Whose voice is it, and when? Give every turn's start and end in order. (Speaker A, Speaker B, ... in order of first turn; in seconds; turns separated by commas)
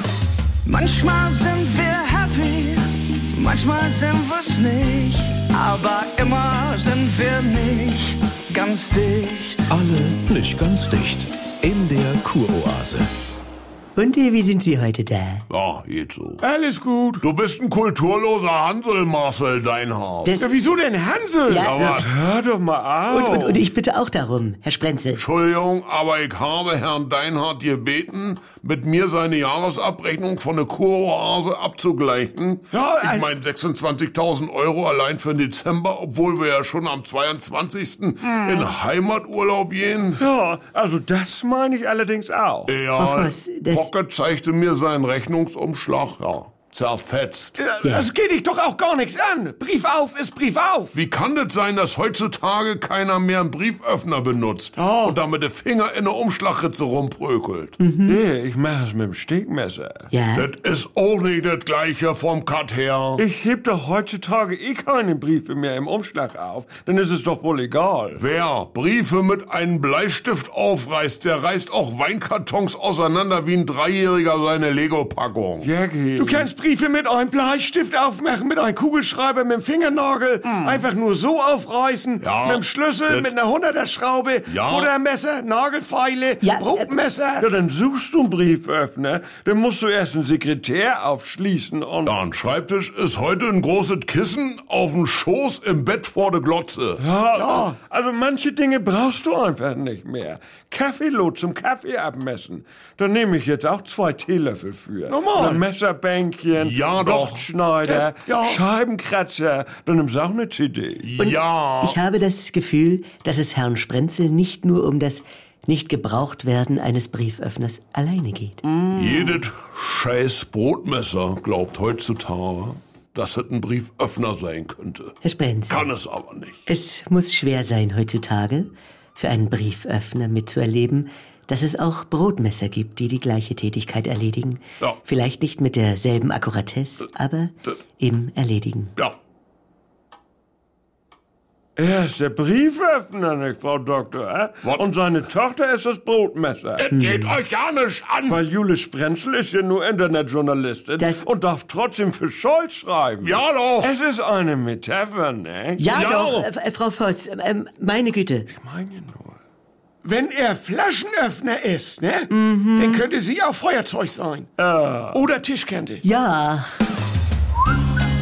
Speaker A: 0.6-9.7, Speaker B: 9.7-13.1, Speaker C: 13.9-15.4, Speaker D: 15.5-16.4, Speaker E: 16.4-17.2, Speaker D: 17.2-20.3, Speaker C: 20.2-20.5, Speaker E: 20.6-21.5, Speaker C: 21.5-21.9, Speaker D: 21.6-22.1, Speaker F: 21.8-23.7, Speaker C: 23.1-25.2, Speaker D: 25.1-40.2, Speaker E: 32.7-33.2, Speaker F: 38.2-38.7, Speaker F: 40.2-42.7, Speaker D: 42.7-47.6, Speaker C: 43.0-43.9, Speaker E: 47.6-50.9, Speaker C: 47.8-48.1, Speaker D: 50.9-57.8, Speaker E: 54.8-55.1, Speaker C: 57.8-58.2, Speaker F: 58.0-60.1, Speaker C: 60.1-60.5, Speaker D: 60.3-63.2, Speaker F: 63.1-68.2, Speaker D: 68.2-75.7, Speaker F: 75.6-76.5, Speaker E: 76.2-87.4, Speaker F: 80.4-80.9, Speaker D: 82.2-83.3, Speaker D: 84.5-84.9, Speaker C: 86.4-86.9, Speaker F: 87.4-92.1, Speaker D: 92.0-97.0, Speaker F: 97.0-111.1, Speaker E: 97.4-97.7, Speaker E: 105.1-105.6, Speaker D: 106.5-107.5, Speaker E: 107.9-108.6, Speaker D: 111.0-112.0, Speaker C: 111.2-118.6, Speaker F: 118.6-119.5, Speaker D: 118.9-125.2, Speaker C: 125.2-125.9, Speaker D: 125.7-126.6, Speaker C: 126.7-138.9, Speaker F: 141.8-146.9, Speaker D: 146.8-148.4, Speaker C: 146.9-147.4, Speaker F: 148.3-156.5, Speaker C: 151.0-151.3, Speaker D: 153.2-153.9, Speaker C: 155.8-158.5, Speaker F: 158.5-159.4, Speaker E: 160.0-162.2, Speaker C: 162.3-163.0, Speaker E: 162.8-164.4, Speaker F: 164.6-165.2, Speaker E: 165.1-166.0, Speaker C: 166.0-166.7